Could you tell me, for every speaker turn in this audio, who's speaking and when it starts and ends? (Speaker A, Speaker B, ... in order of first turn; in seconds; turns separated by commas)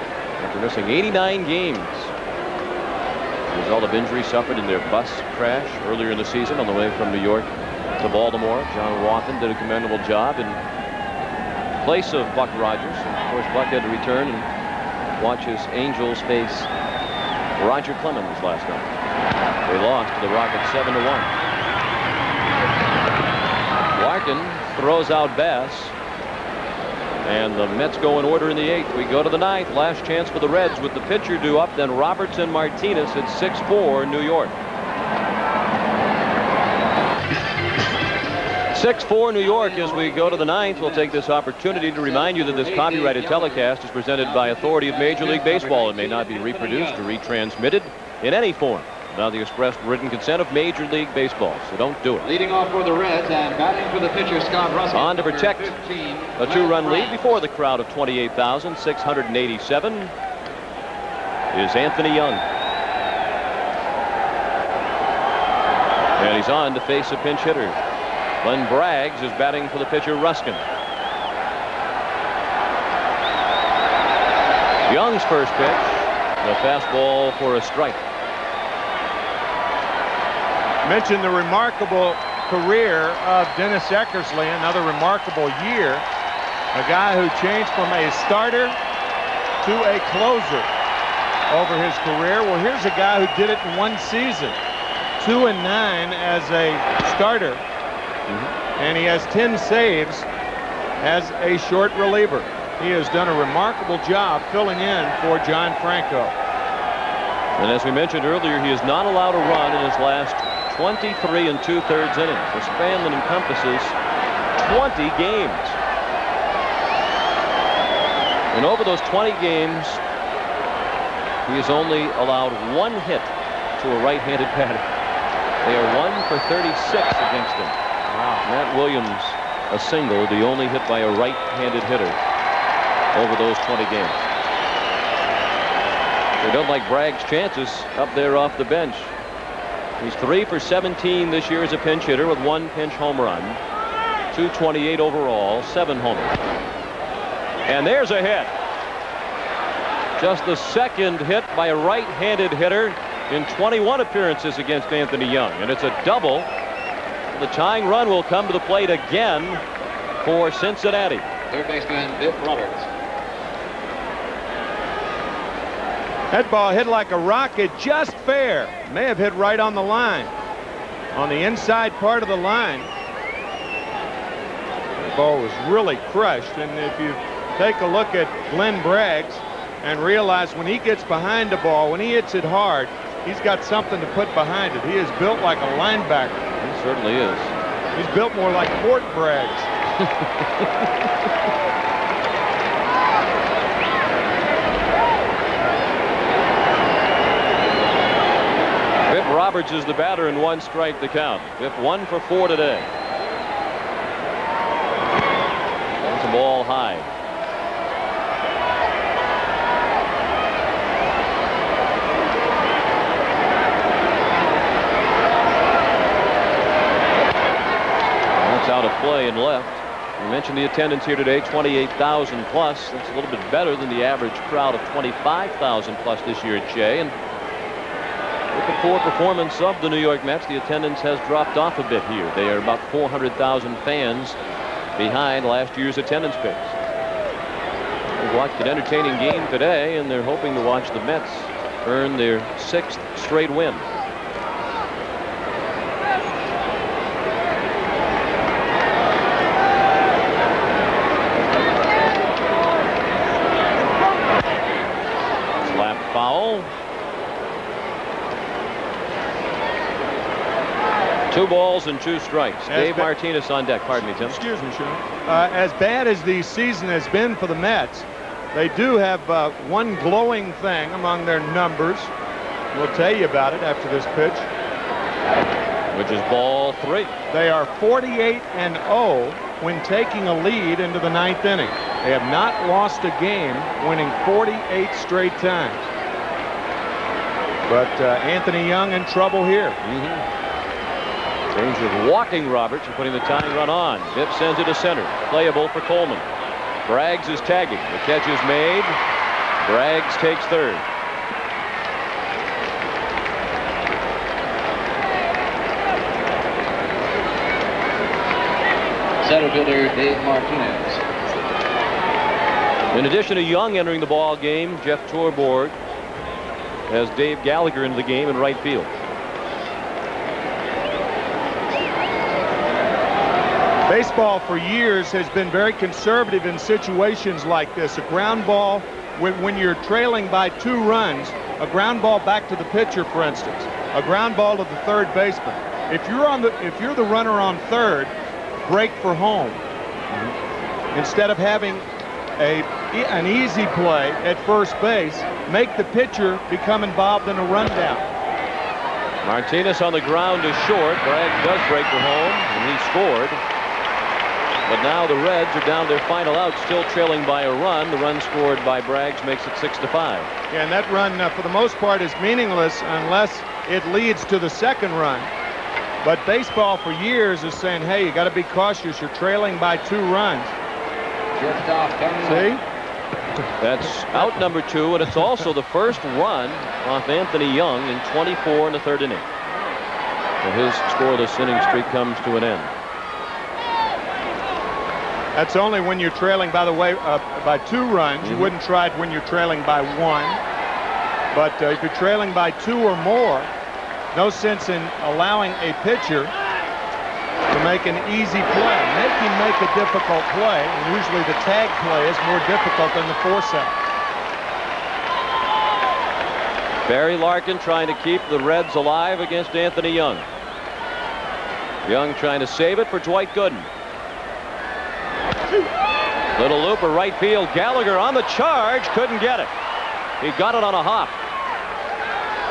Speaker A: 0.4-2.1, Speaker A: 3.5-10.6, Speaker A: 11.8-14.5, Speaker A: 15.2-16.7, Speaker A: 17.6-18.9, Speaker A: 19.6-21.3, Speaker A: 23.9-25.9, Speaker A: 27.2-34.5, Speaker A: 38.7-52.3, Speaker B: 39.4-47.0, Speaker B: 52.2-57.3, Speaker A: 54.9-55.7, Speaker A: 56.4-60.1, Speaker A: 61.5-62.4, Speaker A: 66.2-67.8, Speaker A: 68.4-70.6, Speaker A: 74.8-78.0, Speaker C: 80.8-86.0, Speaker C: 86.7-88.8, Speaker C: 89.6-90.7, Speaker C: 91.5-94.6, Speaker C: 95.2-97.6, Speaker C: 98.8-100.3, Speaker C: 101.0-106.3, Speaker A: 107.6-114.0, Speaker A: 114.5-115.8, Speaker A: 118.5-120.0, Speaker A: 121.4-124.9, Speaker A: 125.6-132.2, Speaker A: 133.1-134.3, Speaker A: 136.4-139.1, Speaker A: 140.0-143.6, Speaker A: 144.3-146.4, Speaker A: 147.6-148.5, Speaker A: 150.2-156.5, Speaker A: 157.3-159.6, Speaker A: 160.2-161.2, Speaker B: 161.5-162.9, Speaker C: 166.3-170.3, Speaker C: 171.1-172.9, Speaker C: 174.9-186.4, Speaker A: 186.6-187.5, Speaker C: 187.9-189.7, Speaker A: 199.1-202.9, Speaker A: 206.0-207.1, Speaker A: 218.3-227.1, Speaker A: 228.5-234.4, Speaker A: 234.9-236.8, Speaker A: 238.2-243.9, Speaker A: 255.6-256.7, Speaker A: 261.3-264.4, Speaker C: 262.7-263.1, Speaker C: 264.1-272.1, Speaker C: 272.7-274.5, Speaker A: 275.9-277.1, Speaker C: 277.3-285.9, Speaker C: 287.7-289.8, Speaker A: 289.8-290.2, Speaker A: 291.5-296.3, Speaker A: 296.9-299.0, Speaker A: 299.6-300.8, Speaker B: 309.2-311.0, Speaker A: 312.9-315.7, Speaker A: 316.9-318.9, Speaker C: 323.9-339.6, Speaker C: 340.9-341.9, Speaker C: 342.4-348.1, Speaker A: 349.2-353.4, Speaker A: 354.6-360.3, Speaker C: 360.5-365.3, Speaker C: 366.0-370.6, Speaker B: 371.4-372.6, Speaker C: 372.2-372.6, Speaker A: 373.6-379.3, Speaker A: 380.4-382.7, Speaker C: 385.3-390.4, Speaker A: 388.2-388.5, Speaker C: 391.3-393.5, Speaker C: 394.1-396.3, Speaker C: 397.5-403.8, Speaker A: 406.8-410.2, Speaker A: 411.8-413.7, Speaker A: 416.4-419.5, Speaker A: 420.2-421.1